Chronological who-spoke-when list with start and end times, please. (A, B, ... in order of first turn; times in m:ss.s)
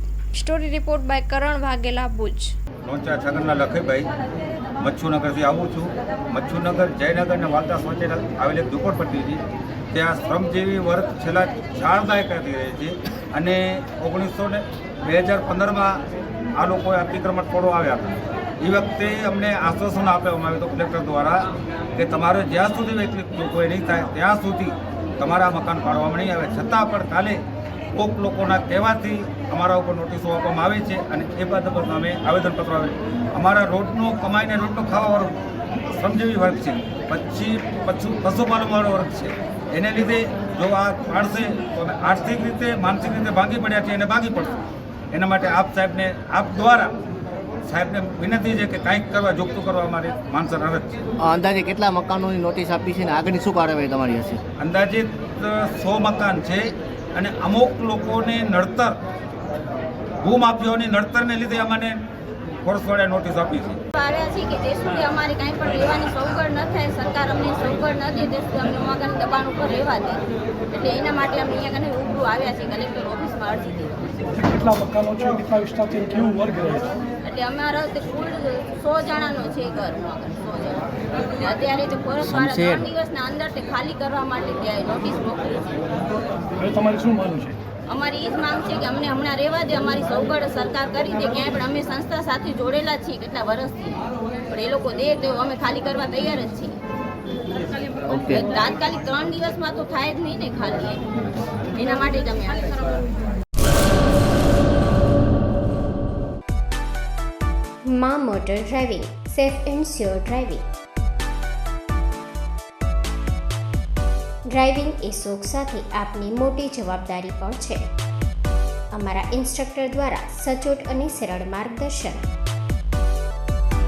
0:00.3-0:02.5 A
0:02.8-0:04.1 B
0:04.8-0:16.0 B
0:16.6-0:27.4 B
0:27.9-0:35.3 B
0:35.9-0:44.5 B
0:45.1-0:46.9 B
0:47.6-0:51.0 B
0:51.2-0:54.4 C
0:54.6-0:59.0 B
1:00.2-1:02.0 B
1:02.6-1:03.8 B
1:03.9-1:14.0 D
1:14.4-1:17.0 E
1:17.2-1:25.8 D
1:22.2-1:22.8 C
1:26.6-1:27.6 E
1:27.9-1:36.8 D
1:38.1-1:38.4 C
1:38.3-1:41.0 D
1:41.7-1:43.0 D
1:47.9-1:50.6 F
1:54.5-1:57.8 F
1:58.9-2:02.2 F